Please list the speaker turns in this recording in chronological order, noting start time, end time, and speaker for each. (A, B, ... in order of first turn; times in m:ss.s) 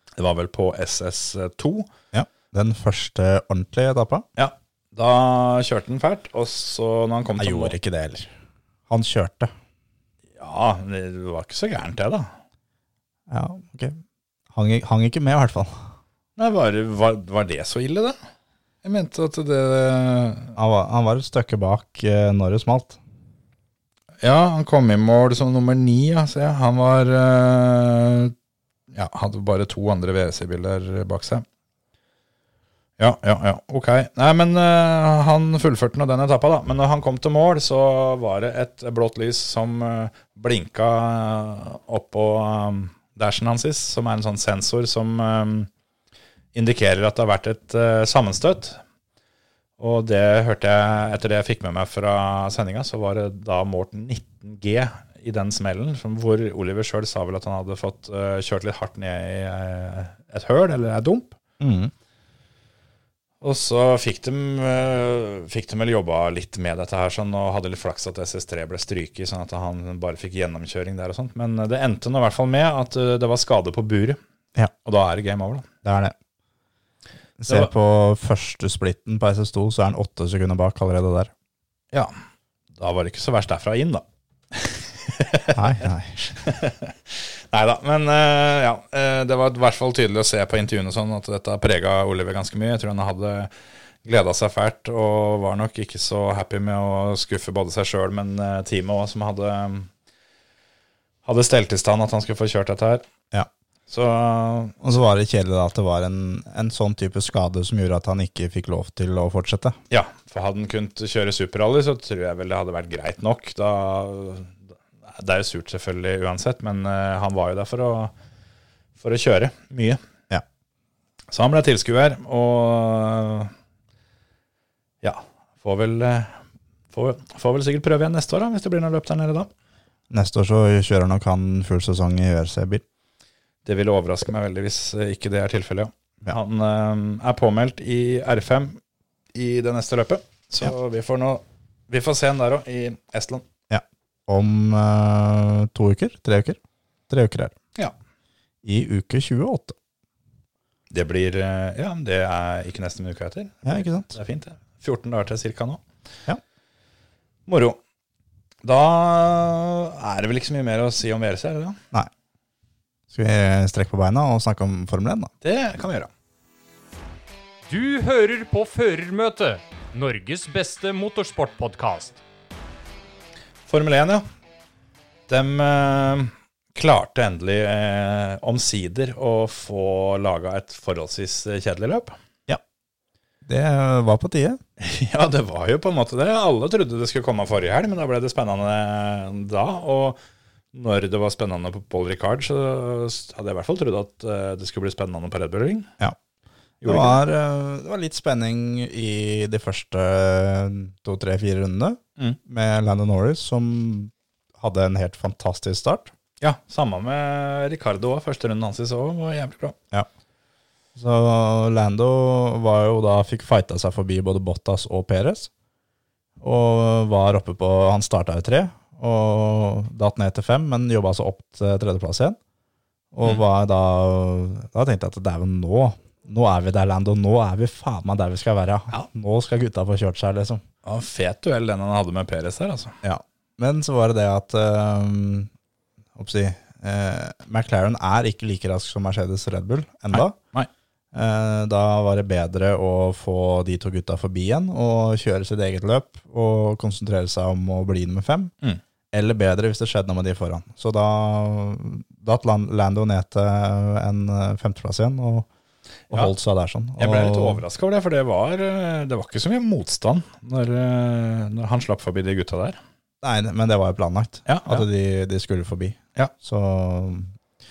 0:00.2-0:01.9 A
0:02.1-0:04.2 B
0:04.4-0:07.7 A
0:07.4-0:08.3 B
0:08.9-0:09.5 B
0:10.4-0:12.3 A
0:13.3-0:14.0 B
0:14.5-0:15.9 B
0:16.4-0:18.2 A
0:18.8-0:20.5 A
0:20.6-0:23.0 B
0:24.2-0:28.3 A
0:28.9-0:31.4 A
0:33.0-0:45.7 A
0:46.5-0:48.8 A
0:49.8-1:01.3 A
1:01.6-1:01.9 B
1:03.4-1:14.2 A
1:14.8-1:15.7 A
1:15.8-1:16.1 B
1:17.4-1:21.3 B
1:22.8-1:25.6 A
1:25.5-1:26.2 B
1:26.3-1:33.5 A
1:34.0-1:39.9 A
1:41.2-1:43.0 A
1:43.9-1:44.8 A
1:44.8-1:49.8 B
1:49.9-1:58.1 A
1:59.0-2:00.0 A
2:01.3-2:03.5 A
2:05.0-2:06.4 A
2:06.9-2:09.5 A
2:10.1-2:12.8 B
2:13.6-2:18.8 A
2:19.3-2:23.4 A
2:23.7-2:27.5 B
2:28.6-2:29.7 B
2:30.9-2:35.8 A
2:33.6-2:34.1 B
2:37.5-2:37.8 A
2:38.6-2:41.8 A
2:43.1-2:45.3 B
2:45.4-2:46.1 A
2:47.7-2:52.2 C
2:53.7-2:54.2 A
2:55.3-3:02.2 A
3:03.4-3:04.6 B
3:04.8-3:10.2 A
3:10.7-3:15.9 A
3:16.8-3:17.2 A
3:16.8-3:26.1 B
3:26.4-3:29.8 A
3:30.9-3:35.5 B
3:36.4-3:42.4 B
3:43.1-3:50.6 B
3:50.8-3:52.9 A
3:53.0-3:55.5 B
3:56.2-4:00.3 B
4:00.1-4:00.7 A
4:01.1-4:08.5 B
4:09.1-4:15.5 B
4:16.1-4:17.6 B
4:17.0-4:22.8 A
4:23.2-4:27.3 B
4:24.4-4:24.8 A